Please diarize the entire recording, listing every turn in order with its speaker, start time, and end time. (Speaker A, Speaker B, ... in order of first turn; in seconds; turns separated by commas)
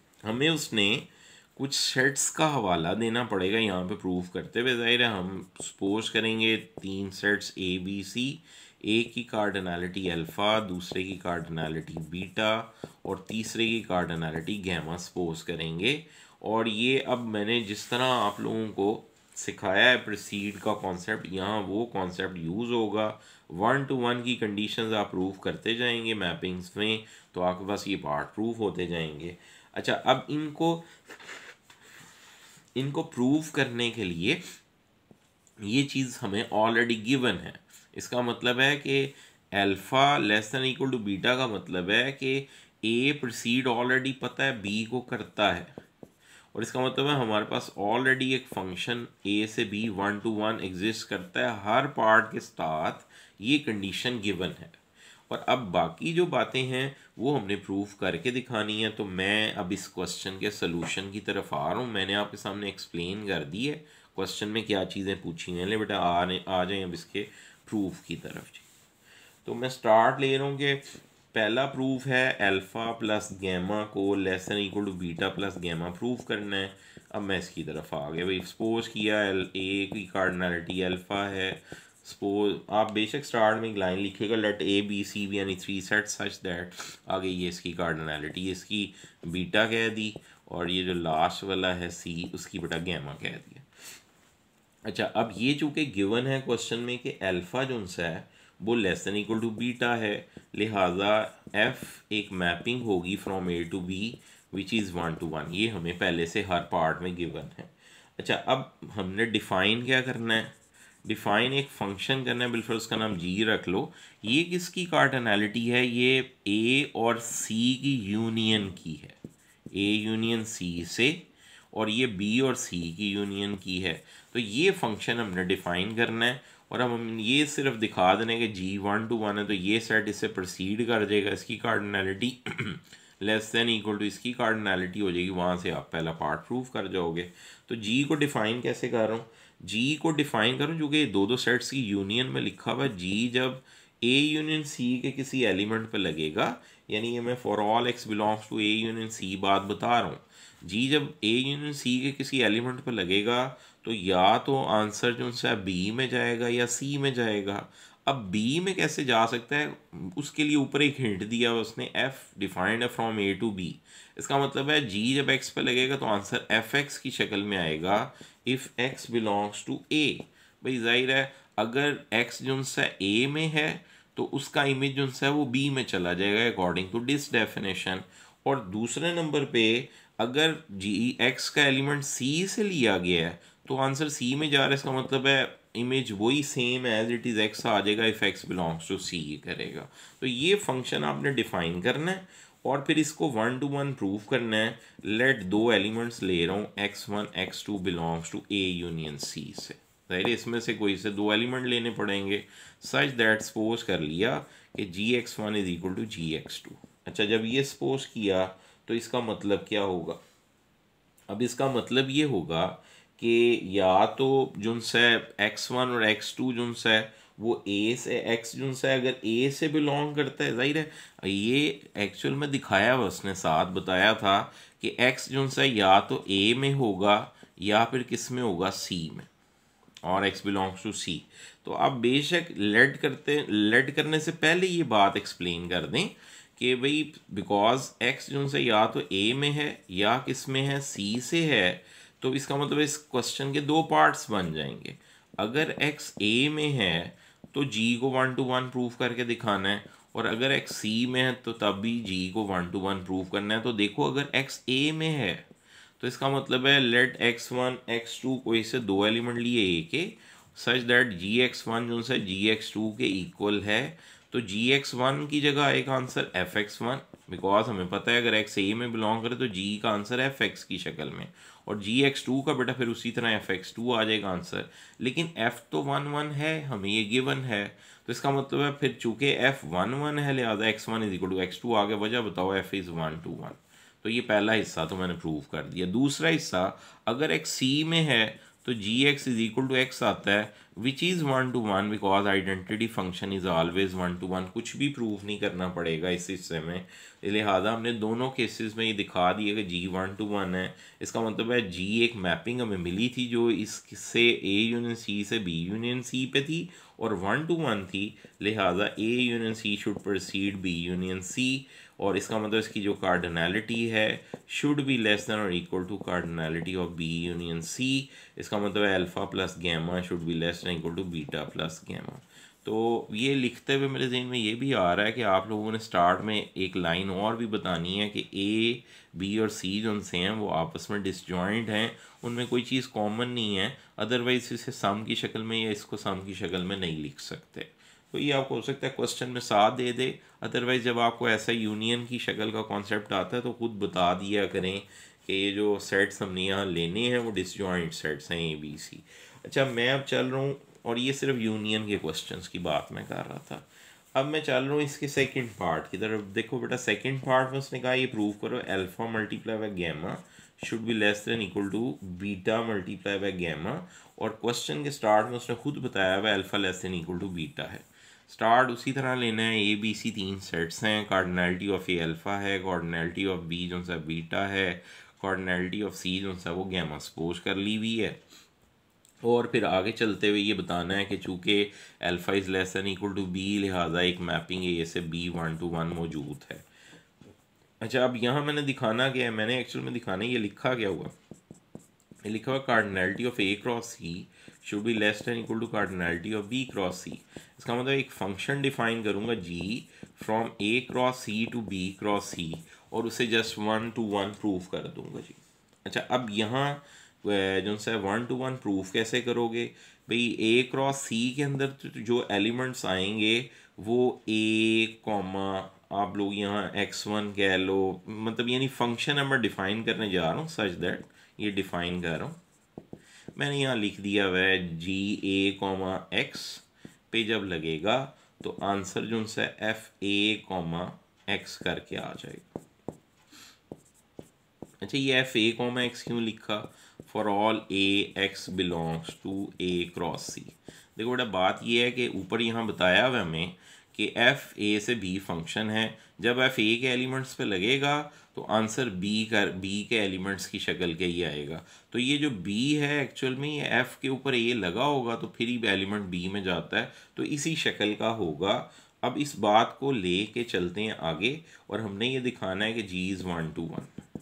Speaker A: 0.2-31.4, Speaker A: 32.8-34.4, Speaker A: 35.6-45.7, Speaker A: 46.5-68.7, Speaker A: 69.5-93.7, Speaker A: 94.9-110.5, Speaker A: 111.0-119.2, Speaker A: 119.7-210.2, Speaker A: 211.3-229.3, Speaker A: 230.1-255.4, Speaker A: 256.0-378.2, Speaker A: 379.2-386.6, Speaker A: 387.8-391.1, Speaker A: 392.3-422.4, Speaker A: 423.4-432.5, Speaker A: 434.8-463.9